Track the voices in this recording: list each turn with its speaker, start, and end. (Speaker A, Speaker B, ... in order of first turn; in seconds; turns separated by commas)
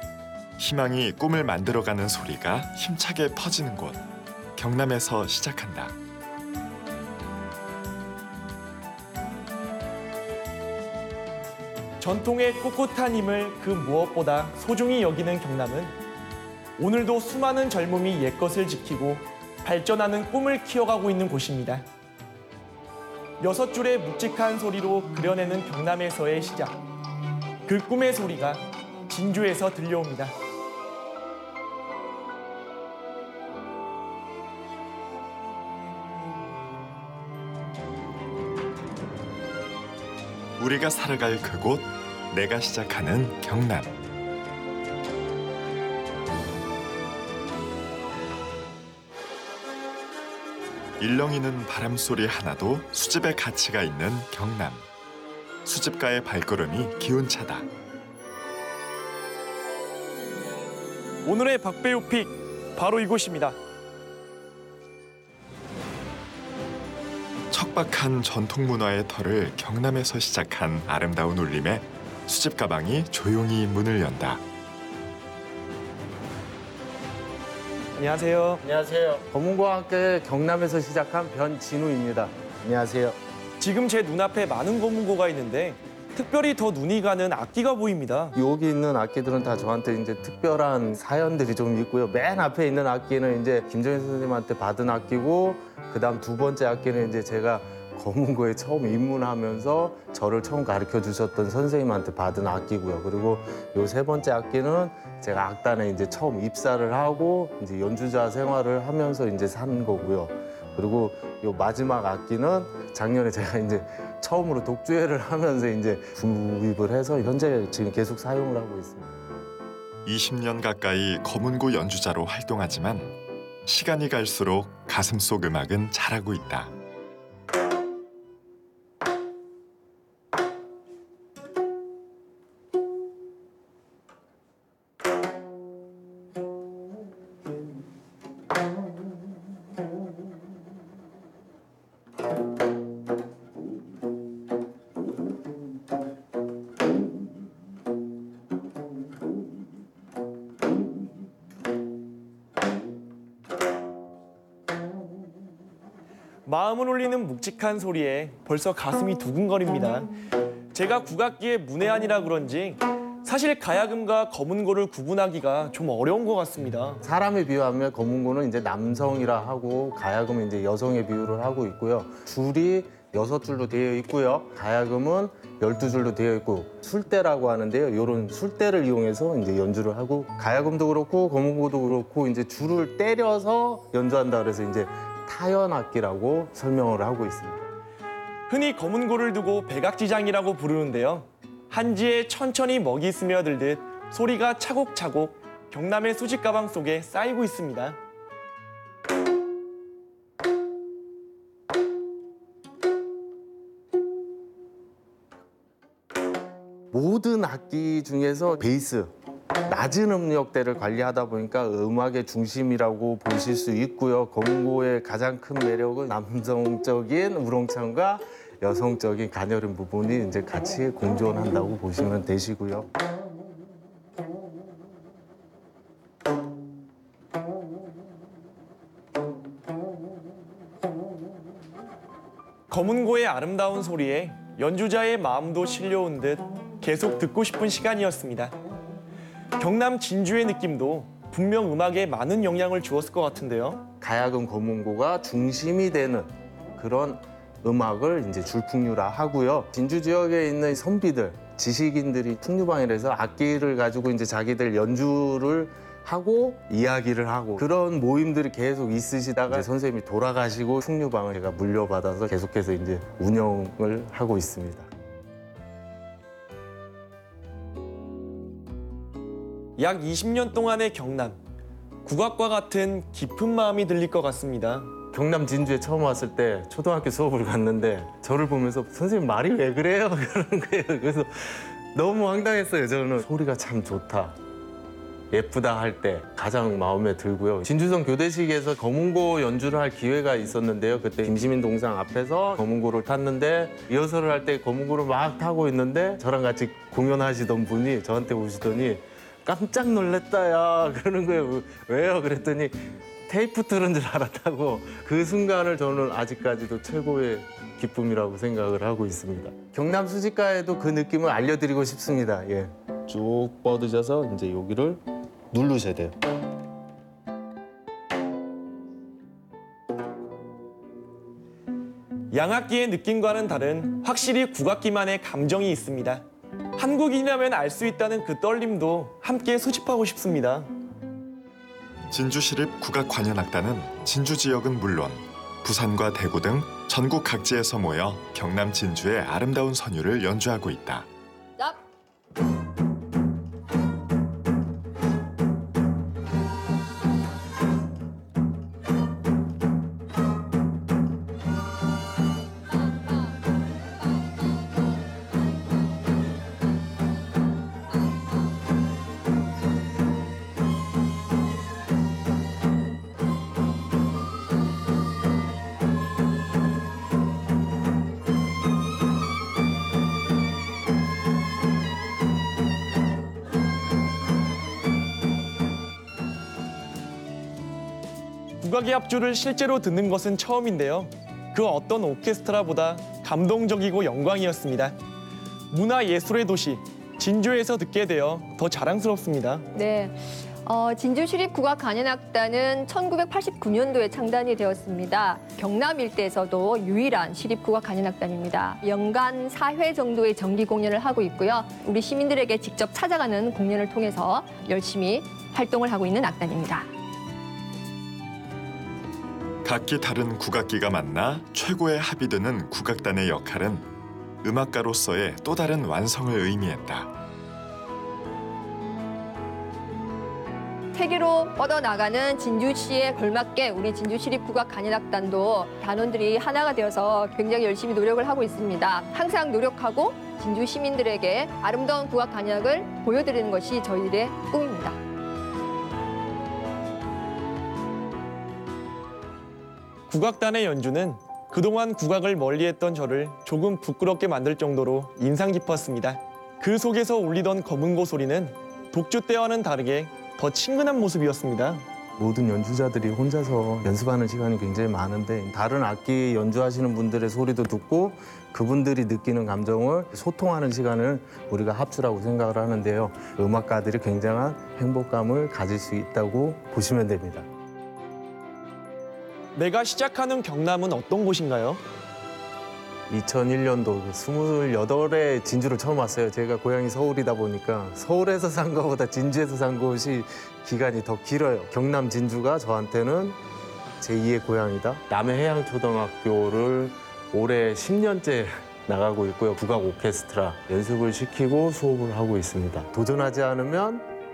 Speaker A: 0.6-4.0, Speaker A: 4.6-6.0, Speaker B: 12.0-16.0, Speaker B: 16.8-21.9, Speaker B: 23.4-26.8, Speaker B: 27.7-30.4, Speaker A: 40.6-44.0, Speaker A: 51.0-54.9, Speaker A: 55.6-57.7, Speaker B: 61.2-63.6, Speaker A: 67.5-74.4, Speaker B: 78.0-78.6, Speaker C: 78.6-83.2, Speaker B: 83.6-88.4, Speaker C: 88.4-119.1, Speaker A: 120.0-126.7, Speaker B: 156.4-160.1, Speaker B: 160.7-167.0, Speaker C: 167.0-187.7, Speaker B: 188.5-198.0, Speaker C: 206.9-209.1, Speaker C: 209.7-222.9, Speaker B: 232.7-238.6, Speaker B: 239.6-243.8, Speaker C: 244.0-264.9, Speaker B: 269.8-271.4, Speaker B: 272.0-274.9, Speaker C: 275.1-284.4, Speaker C: 285.3-316.1, Speaker B: 322.3-326.2, Speaker B: 326.8-330.7, Speaker A: 332.1-341.1, Speaker B: 378.6-385.0, Speaker B: 385.7-389.7, Speaker D: 389.7-406.9, Speaker A: 409.6-413.9, Speaker A: 414.4-417.1, Speaker D: 420.9-435.0, Speaker B: 440.1-451.8, Speaker C: 452.2-467.5, Speaker B: 469.6-471.8, Speaker C: 473.1-483.4, Speaker C: 484.0-494.1